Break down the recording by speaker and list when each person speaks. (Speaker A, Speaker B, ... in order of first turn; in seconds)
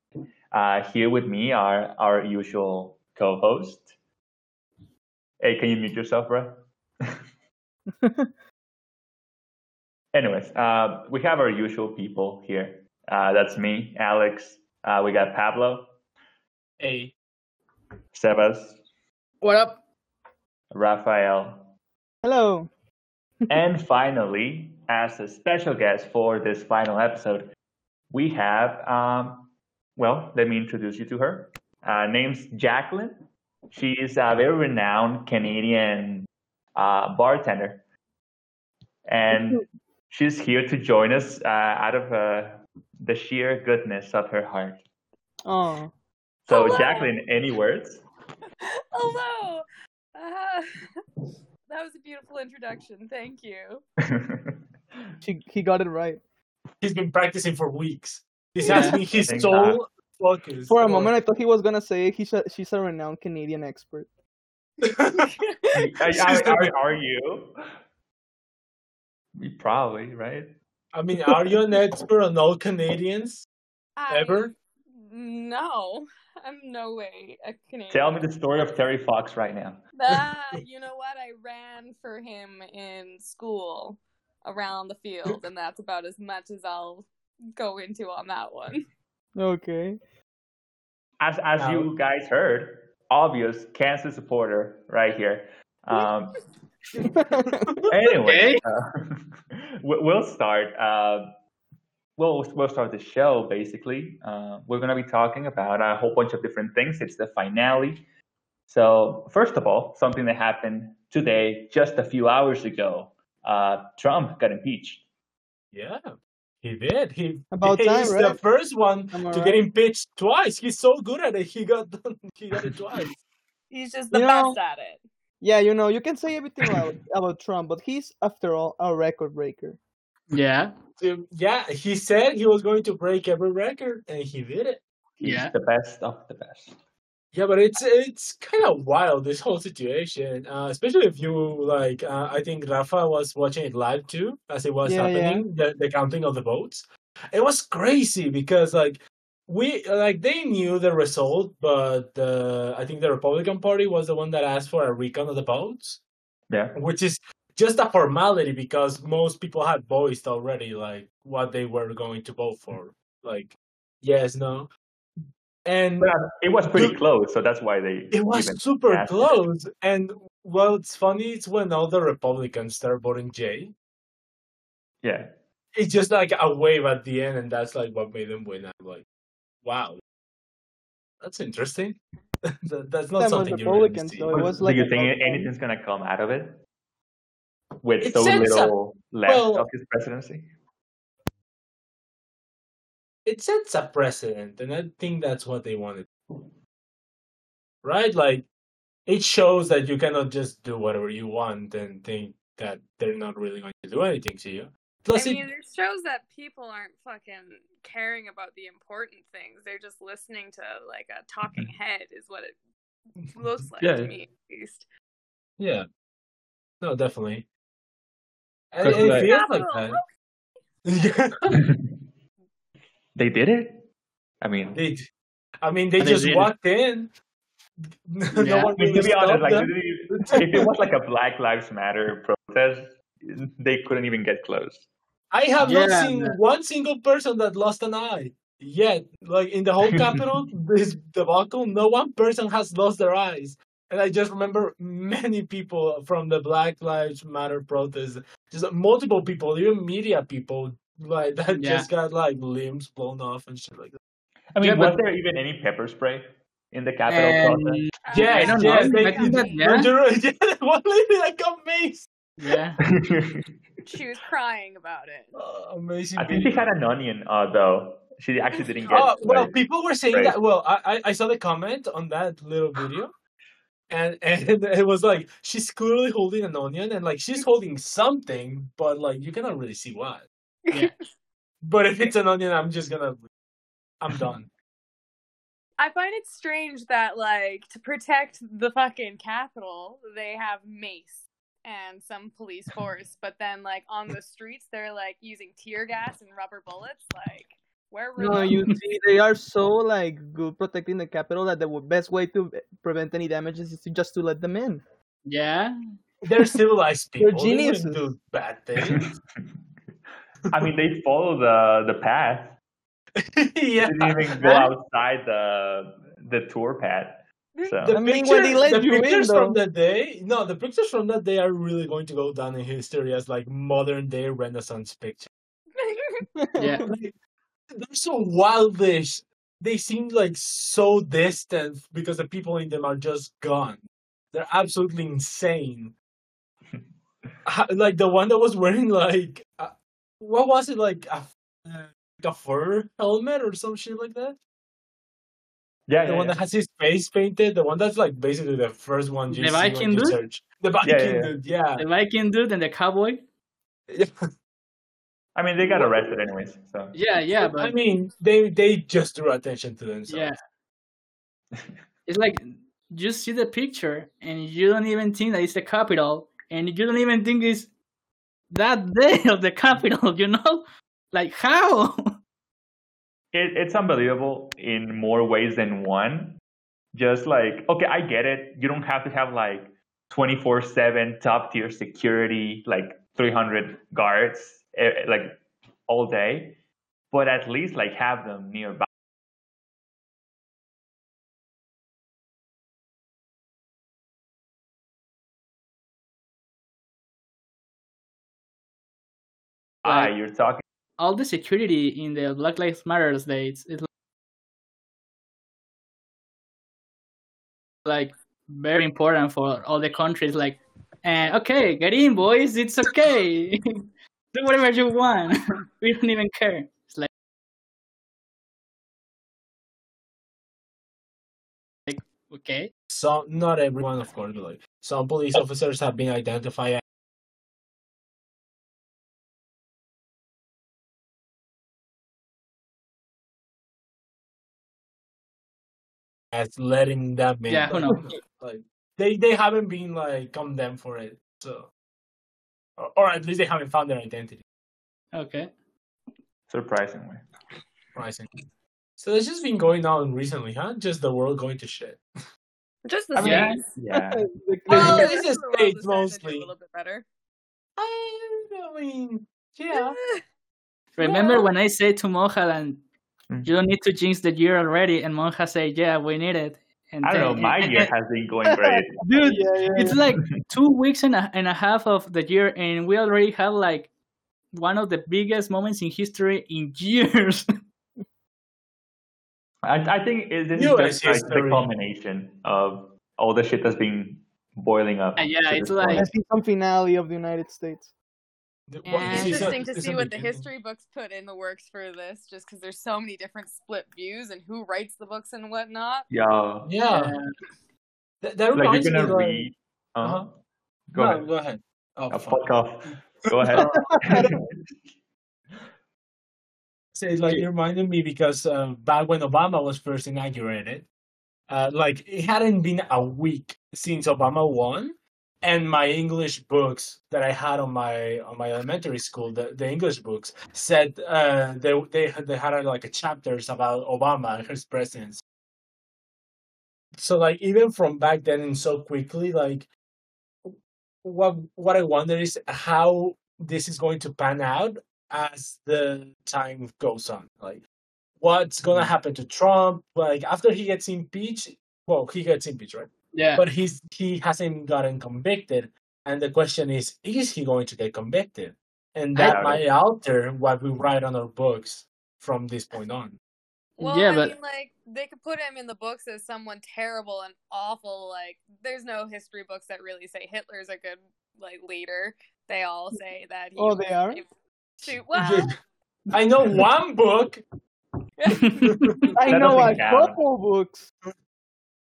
Speaker A: 0.5-3.9, 5.4-7.1, 10.1-15.9, 18.1-18.8, 20.7-21.7, 23.5-27.5, 28.1-37.8, 39.0-44.8, 46.5-48.0, 54.0-54.6, 59.1-59.8, 65.8-67.5, 69.3-70.5, 77.9-79.8, 91.2-96.4, 97.9-101.3, 102.2-108.0, 108.7-115.0, 135.2-136.8, 156.5-156.7, 166.0-169.4, 175.0-175.3, 184.3-186.6, 187.8-190.5, 213.8-214.2, 218.8-219.4, 221.5-221.9, 223.2-223.8, 224.4-224.8, 228.8-234.8, 254.5-257.8, 262.9-263.4, 266.2-270.4, 308.9-309.1, 310.5-312.6, 313.8-318.0, 345.9-346.4, 350.8-351.3, 355.3-356.9, 373.3-376.4, 376.9-386.6, 387.1-388.9, 399.8-400.6, 446.5-447.2, 453.1-454.2, 467.0-469.0, 479.6-486.1, 489.1-489.5, 496.1-496.7, 498.5-500.3, 500.9-501.2, 502.1-504.5, 549.2-549.6, 569.2-570.2
Speaker B: 16.8-17.1, 56.8-61.1, 64.8-65.3, 66.1-66.7, 70.9-73.5, 74.1-74.5, 91.6-91.9, 96.9-97.9, 115.7-123.1, 131.0-134.8, 137.3-156.0, 156.7-164.7, 165.6-166.1, 168.1-173.7, 175.7-179.0, 179.6-180.0, 181.2-182.0, 182.5-184.7, 188.0-189.7, 193.2-196.1, 197.8-198.5, 199.1-205.4, 215.6-215.8, 216.8-217.5, 218.7-220.0, 220.8-221.5, 224.7-225.1, 225.6-227.1, 228.0-230.7, 235.3-254.0, 258.1-262.1, 265.4-266.6, 268.9-273.1, 273.9-280.3, 281.6-283.2, 284.0-284.4, 306.2-309.1, 313.2-314.5, 317.9-325.3, 326.8-327.1, 327.8-335.9, 337.4-344.4, 346.0-351.9, 355.6-356.1, 357.3-360.3, 422.9-426.8, 436.3-441.7, 442.8-444.4, 447.9-448.3, 449.0-452.0, 454.7-456.5, 457.8-459.9, 480.5-481.7, 488.7-490.4, 496.6-497.1, 498.2-499.5, 500.9-503.6, 506.9-510.9, 511.5-525.2, 527.0-529.7, 530.4-537.6, 538.2-553.2, 564.9-565.5, 566.1-567.4, 568.5-569.6
Speaker C: 19.4-19.8, 58.6-59.0, 98.2-98.6, 130.3-130.7, 135.2-135.5, 226.0-226.5, 228.3-228.7, 235.6-236.4, 251.5-251.9, 254.6-255.0, 257.1-259.9, 262.4-262.8, 305.2-305.8, 326.6-326.9, 349.3-350.2, 351.8-353.2, 356.9-357.7, 360.1-360.4, 362.1-367.7, 368.5-372.1, 399.8-400.1, 401.0-403.9, 407.8-417.1, 421.9-422.7, 437.5-438.1, 445.1-445.5, 453.2-453.6, 460.9-462.8, 463.4-467.9, 469.0-473.9, 474.5-477.4, 485.2-486.1, 496.9-497.3, 543.1-543.5, 549.1-549.5, 553.8-554.3, 568.4-569.0
Speaker D: 22.2-22.7, 45.4-45.9, 55.2-56.2, 58.7-59.0, 60.7-64.1, 89.3-90.0, 97.2-97.6, 117.5-118.4, 119.1-119.6, 124.1-124.6, 125.4-129.8, 144.8-145.4, 183.2-185.5, 298.2-304.8, 307.2-308.1, 317.9-319.6, 326.4-326.9, 453.9-455.1, 468.5-470.0, 485.9-487.9, 503.9-504.3, 563.5-564.2, 569.1-570.9
Speaker E: 46.5-47.2, 48.9-50.8, 51.7-53.8, 65.3-65.9, 74.0-78.2, 79.9-88.8, 123.7-125.0, 205.1-212.6, 213.3-214.9, 218.8-220.1, 258.0-259.6, 263.9-265.4, 280.6-281.0, 285.8-298.6, 317.5-317.8, 325.8-326.3, 452.8-453.8, 454.7-457.1, 459.7-460.2, 461.0-461.5, 488.8-496.1, 553.8-565.6, 568.2-568.6